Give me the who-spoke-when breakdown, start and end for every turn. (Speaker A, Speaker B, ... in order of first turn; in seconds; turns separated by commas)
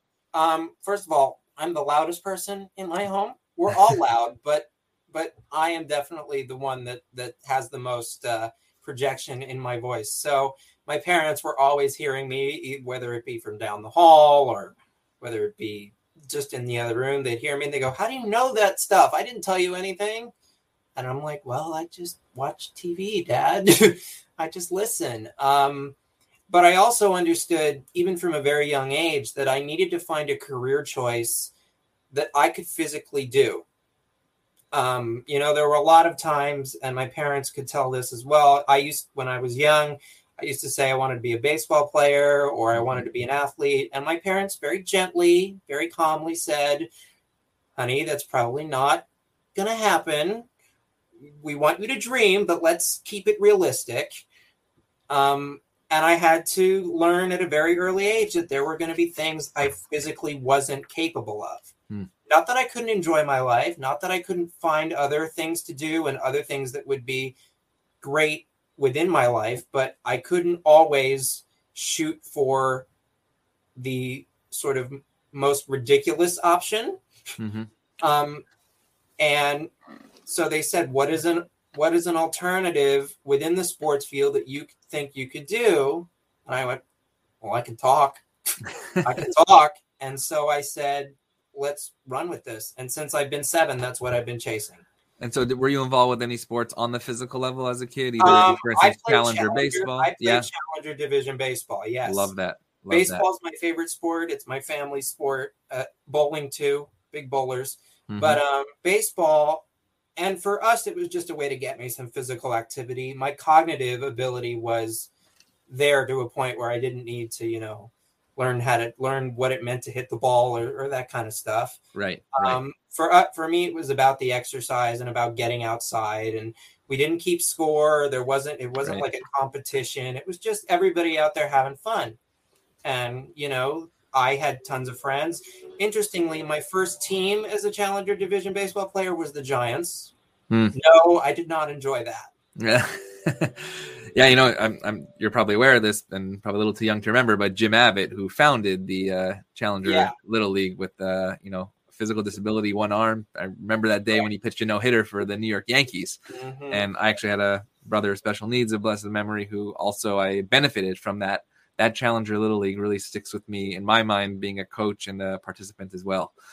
Speaker A: 0.3-20.3, Speaker A: 20.9-25.9, Speaker A: 26.5-31.5, Speaker A: 32.1-33.6, Speaker A: 34.7-46.9, Speaker B: 42.7-43.0, Speaker A: 47.8-50.5, Speaker A: 51.2-54.2, Speaker A: 55.1-61.7, Speaker A: 62.3-67.3, Speaker A: 68.0-72.9, Speaker A: 73.8-77.0, Speaker B: 77.4-77.7, Speaker A: 78.0-78.4, Speaker A: 79.2-79.7, Speaker A: 80.2-86.8, Speaker A: 87.4-88.2, Speaker A: 89.0-94.8, Speaker B: 95.2-100.5, Speaker A: 98.2-102.3, Speaker B: 102.0-103.2, Speaker A: 102.9-109.6, Speaker B: 108.1-108.4, Speaker A: 110.2-115.1, Speaker A: 115.7-121.8, Speaker B: 121.9-122.6, Speaker A: 122.3-132.2, Speaker A: 132.8-140.1, Speaker B: 140.5-140.8, Speaker A: 140.7-142.3, Speaker B: 142.6-156.2, Speaker A: 149.8-150.1, Speaker A: 156.3-156.8, Speaker B: 156.7-166.3